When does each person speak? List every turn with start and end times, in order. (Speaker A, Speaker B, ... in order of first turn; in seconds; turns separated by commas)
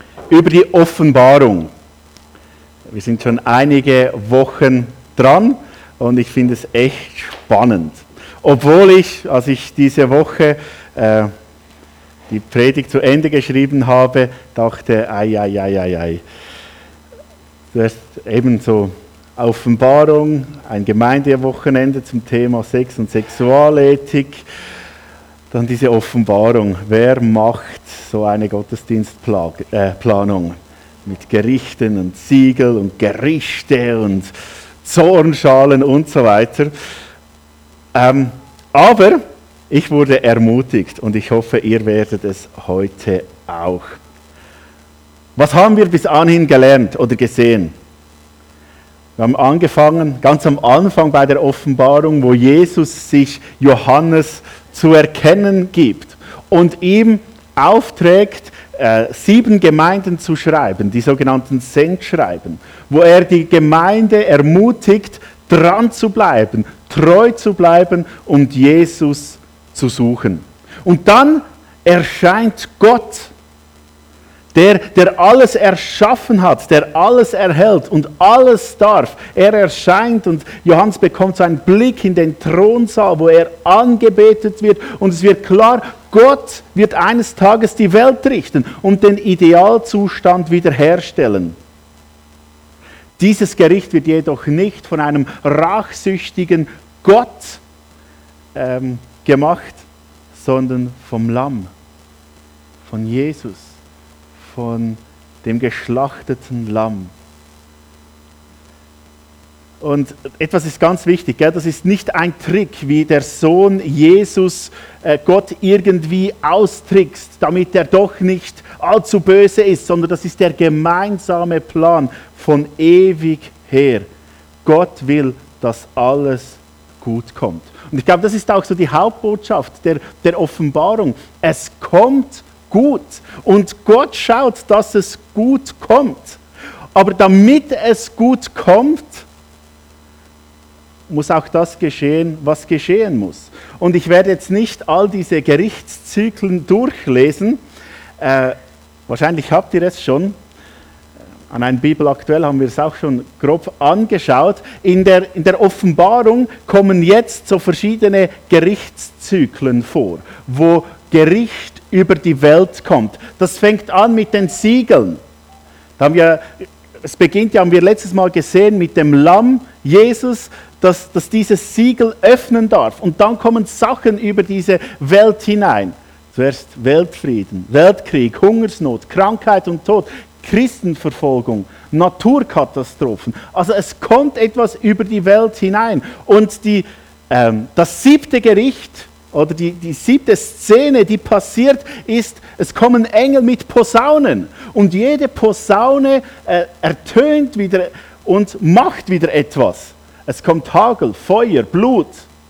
Speaker A: 0.3-1.7, Speaker A: 2.9-11.3, Speaker A: 12.3-16.2, Speaker A: 17.7-24.4, Speaker A: 25.5-34.3, Speaker A: 34.8-36.7, Speaker A: 37.9-44.0, Speaker A: 45.4-47.7, Speaker A: 49.2-73.3, Speaker A: 74.5-91.5, Speaker A: 93.2-97.6, Speaker A: 98.5-101.7, Speaker A: 102.8-103.8, Speaker A: 104.4-107.1, Speaker A: 109.8-124.1, Speaker A: 124.6-136.4, Speaker A: 136.9-139.2, Speaker A: 141.1-147.6, Speaker A: 148.2-150.3, Speaker A: 151.5-165.2, Speaker A: 166.0-202.3